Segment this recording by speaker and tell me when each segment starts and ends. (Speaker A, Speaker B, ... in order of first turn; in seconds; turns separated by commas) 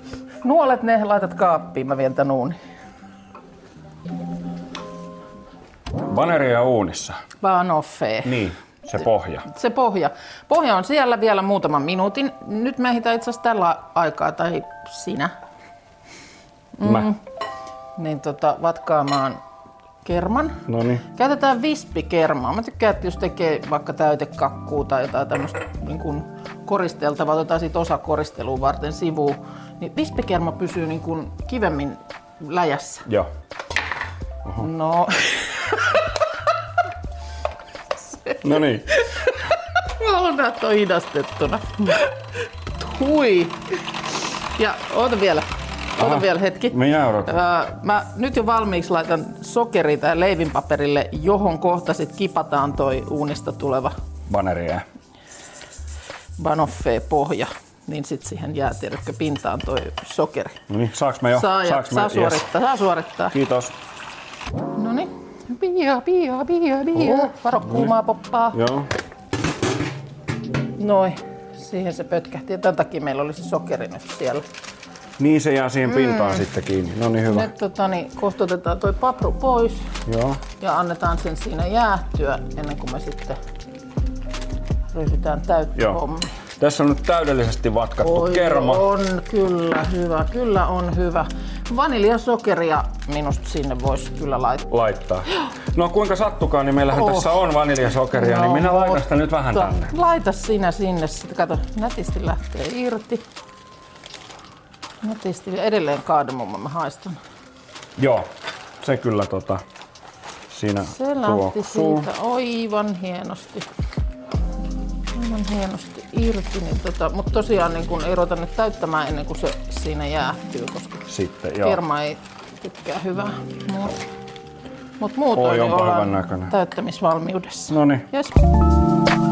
Speaker A: 0.4-2.6, Speaker B: 6.1-7.2, Speaker A: 7.4-8.4, Speaker B: 8.2-9.5, Speaker A: 9.5-15.3, Speaker A: 16.8-17.2, Speaker B: 16.8-17.1, Speaker A: 18.0-19.4, Speaker A: 20.0-33.1, Speaker B: 20.7-21.0, Speaker A: 34.6-36.0, Speaker A: 38.1-38.4, Speaker B: 38.4-38.9, Speaker A: 39.0-42.2, Speaker A: 42.8-43.6, Speaker A: 44.6-53.9, Speaker B: 46.0-47.3, Speaker B: 54.3-54.9, Speaker A: 56.4-60.6, Speaker B: 60.7-62.5, Speaker A: 61.3-63.4, Speaker B: 63.3-63.7, Speaker A: 64.7-68.6, Speaker B: 67.0-67.9, Speaker B: 68.5-68.9, Speaker A: 70.8-74.5, Speaker B: 75.2-77.5, Speaker A: 75.9-76.4, Speaker A: 77.3-79.9, Speaker B: 80.1-80.4, Speaker A: 80.6-83.4, Speaker A: 84.9-86.3, Speaker B: 86.6-88.9, Speaker A: 88.0-94.7, Speaker B: 94.7-99.9, Speaker A: 96.9-97.3, Speaker A: 98.1-99.0, Speaker A: 99.5-103.2, Speaker A: 105.0-107.2, Speaker B: 108.0-108.3, Speaker B: 108.8-109.6, Speaker B: 110.5-112.1, Speaker A: 110.9-113.7, Speaker A: 115.1-121.1, Speaker B: 121.1-121.8, Speaker A: 121.6-124.0, Speaker A: 125.0-128.4, Speaker B: 125.3-126.5, Speaker B: 127.7-128.1